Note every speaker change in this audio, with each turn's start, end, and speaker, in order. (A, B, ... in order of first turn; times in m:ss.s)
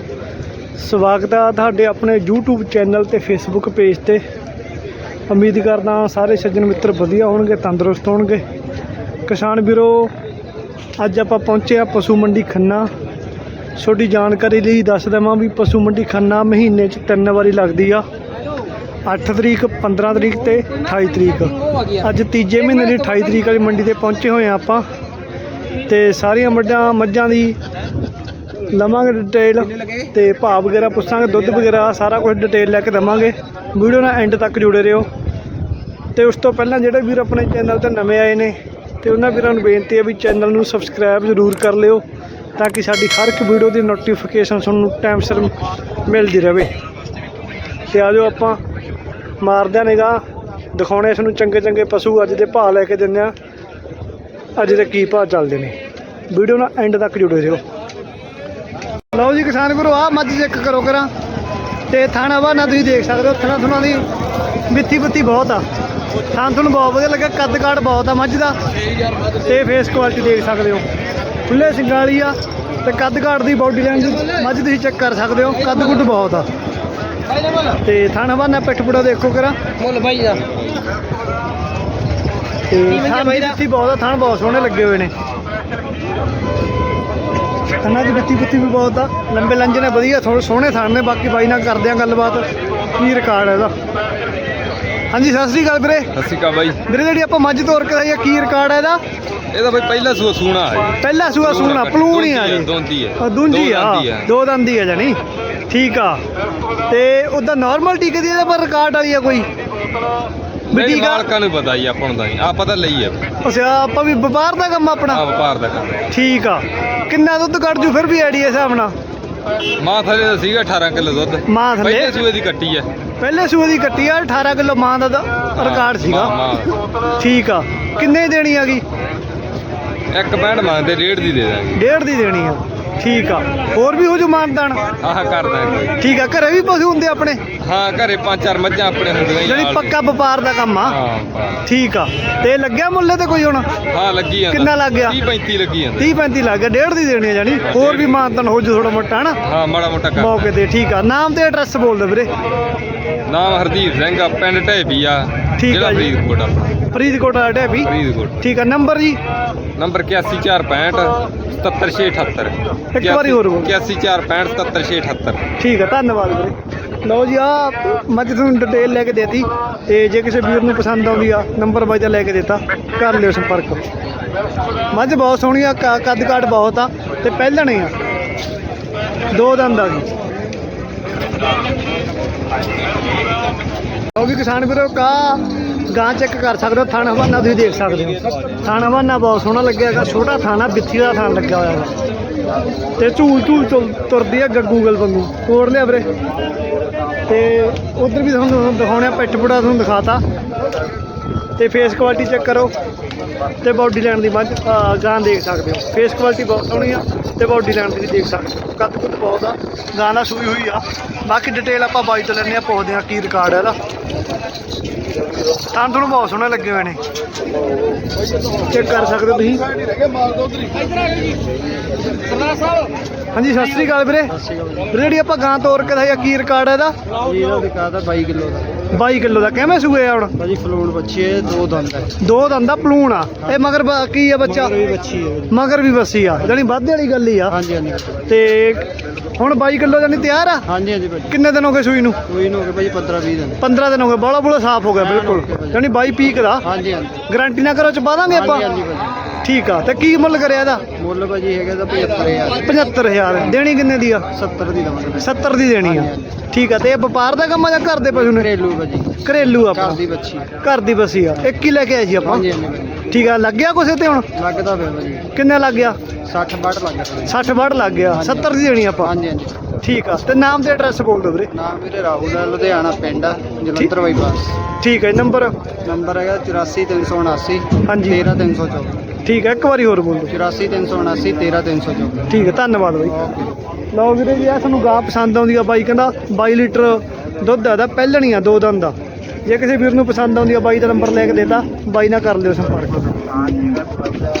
0:00.8-0:04.2 A
0:05.3-0:08.4 A
0:09.3-0:10.1 A
0:11.0-0:12.9 A
0:13.8-0:18.0 A
0:19.0-0:24.8 A
0:25.9-0:27.6 A
0:28.7-0:35.1 A
0:36.2-0:42.0 A
0:42.6-0:45.5 A
0:46.1-0:46.7 A
0:47.9-0:48.6 A
0:49.4-0:50.2 A
0:50.7-0:53.3 A
0:54.6-0:55.7 A
0:56.3-0:57.6 A
0:59.1-1:01.1 A
1:01.9-1:04.0 A
1:04.7-1:05.6 A
1:06.3-1:08.6 A
1:09.4-1:10.8 A
1:11.5-1:16.4 A
1:17.8-1:19.6 A
1:22.7-1:25.1 A
1:27.8-1:33.7 A
1:35.1-1:36.1 A
1:36.2-1:36.8 B
1:36.8-1:39.0 A
1:39.5-1:40.9 B
1:41.0-1:45.2 A
1:41.6-1:44.2 B
1:45.7-1:46.2 A
1:46.9-1:49.5 A
1:50.7-1:51.3 A
1:50.7-1:53.2 B
1:53.4-1:55.2 A
1:55.1-1:56.0 B
1:56.1-1:58.9 A
1:59.8-2:02.9 B
2:01.5-2:02.1 A
2:03.2-2:06.4 A
2:05.6-2:06.6 B
2:07.2-2:08.8 A
2:10.1-2:11.7 B
2:11.7-2:14.8 A
2:15.0-2:15.9 B
2:16.0-2:17.4 A
2:17.6-2:19.9 B
2:19.4-2:21.0 A
2:20.9-2:21.6 B
2:21.6-2:23.6 A
2:23.9-2:26.0 B
2:24.5-2:25.2 A
2:26.0-2:29.4 A
2:27.7-2:28.0 B
2:29.4-2:30.3 B
2:30.2-2:32.3 A
2:33.2-2:36.7 B
2:35.6-2:36.1 A
2:36.9-2:39.2 A
2:37.9-2:38.3 B
2:39.8-2:45.4 B
2:42.9-2:43.7 A
2:45.6-2:53.8 A
2:54.9-2:57.9 A
2:59.3-3:00.1 A
3:04.1-3:11.9 A
3:13.0-3:16.0 A
3:17.3-3:20.2 A
3:21.6-3:22.7 A
3:23.6-3:33.8 A
3:35.7-3:37.0 A
3:38.7-3:39.6 A
3:43.3-3:44.3 A
3:44.3-3:44.9 C
3:44.9-3:46.9 A
3:47.2-3:48.7 C
3:48.9-3:50.3 A
3:50.4-3:52.1 C
3:52.2-3:54.8 A
3:54.5-3:55.5 C
3:55.5-3:57.6 A
3:57.5-3:58.2 C
3:58.3-4:00.7 A
4:00.7-4:01.3 C
4:01.3-4:02.2 A
4:02.3-4:03.6 C
4:03.6-4:06.7 A
4:05.0-4:05.8 C
4:06.6-4:07.2 C
4:07.3-4:08.7 A
4:08.3-4:09.2 C
4:09.4-4:10.8 A
4:11.0-4:12.7 C
4:12.6-4:14.3 A
4:14.3-4:16.3 C
4:15.2-4:18.5 A
4:18.1-4:20.5 C
4:19.2-4:20.0 A
4:20.6-4:22.4 A
4:22.2-4:23.0 C
4:23.1-4:24.3 A
4:24.4-4:25.3 C
4:25.3-4:26.0 A
4:26.2-4:27.3 C
4:27.2-4:29.1 A
4:28.1-4:29.6 C
4:29.8-4:31.5 A
4:31.5-4:34.6 C
4:34.8-4:35.5 A
4:35.8-4:39.0 C
4:37.8-4:38.2 A
4:39.2-4:40.3 A
4:40.3-4:42.3 C
4:42.3-4:43.2 A
4:43.9-4:48.9 A
4:49.4-4:53.1 A